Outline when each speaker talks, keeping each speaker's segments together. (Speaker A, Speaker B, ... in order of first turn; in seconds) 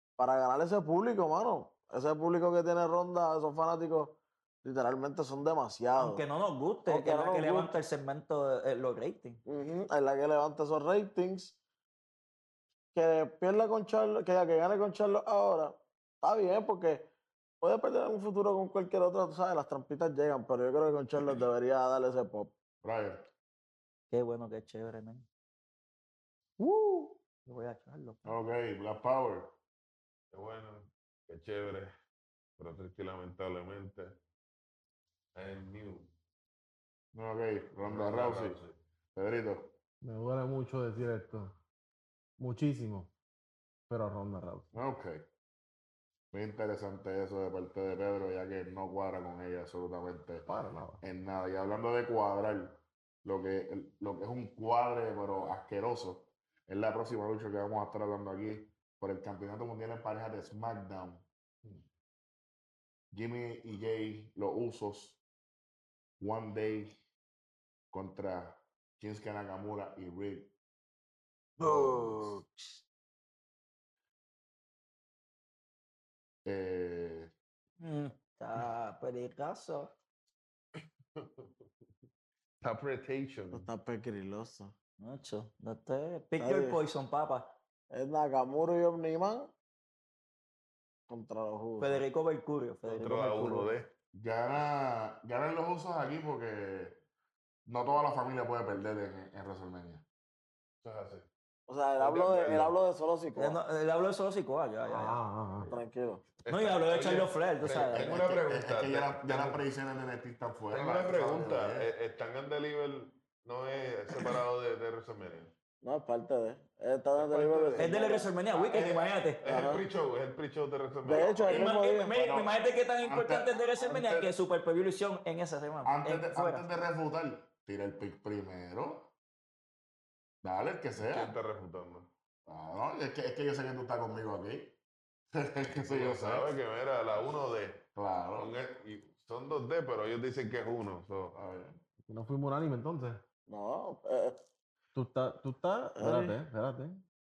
Speaker A: 0.2-6.2, 6.9-7.7, 9.5-11.6, 12.9-17.1, 17.6-22.6, 71.6-72.8, 83.5-84.7, 86.4-86.8, 87.9-89.5, 91.1-92.0, 101.7-103.6, 105.7-106.2, 115.8-118.3, 119.4-119.8, 121.0-122.1, 143.5-144.4, 146.0-146.4
Speaker B: 6.0-9.4, 24.1-25.3, 26.6-28.4, 77.8-79.9, 85.0-87.5, 91.8-93.7, 103.3-105.2, 106.5-108.2, 117.8-119.4, 121.4-126.7
Speaker C: 22.8-23.3, 28.2-29.5, 37.1-38.6, 39.1-39.8, 44.7-45.3, 46.3-50.5, 51.0-61.2, 63.1-65.2, 66.2-67.0, 67.9-70.5, 71.6-72.4, 76.5-77.3, 94.2-97.0, 97.7-100.0, 107.6-111.9, 118.6-118.9, 121.1-124.3, 125.8-129.1, 130.4-131.3, 132.5-134.8, 135.3-136.6, 137.9-138.5, 141.3-141.8
Speaker D: 30.3-31.9, 32.6-34.2, 35.4-36.1, 37.9-38.8, 81.2-81.5, 82.6-83.7, 92.9-93.9, 100.8-101.3, 102.0-102.8, 106.4-109.7, 110.7-115.5, 117.2-118.0, 118.6-121.6, 131.0-132.1, 135.8-141.4
Speaker E: 40.0-41.5, 42.4-43.1, 43.9-44.7, 50.5-51.0, 104.9-105.7, 142.1-143.2, 144.9-147.0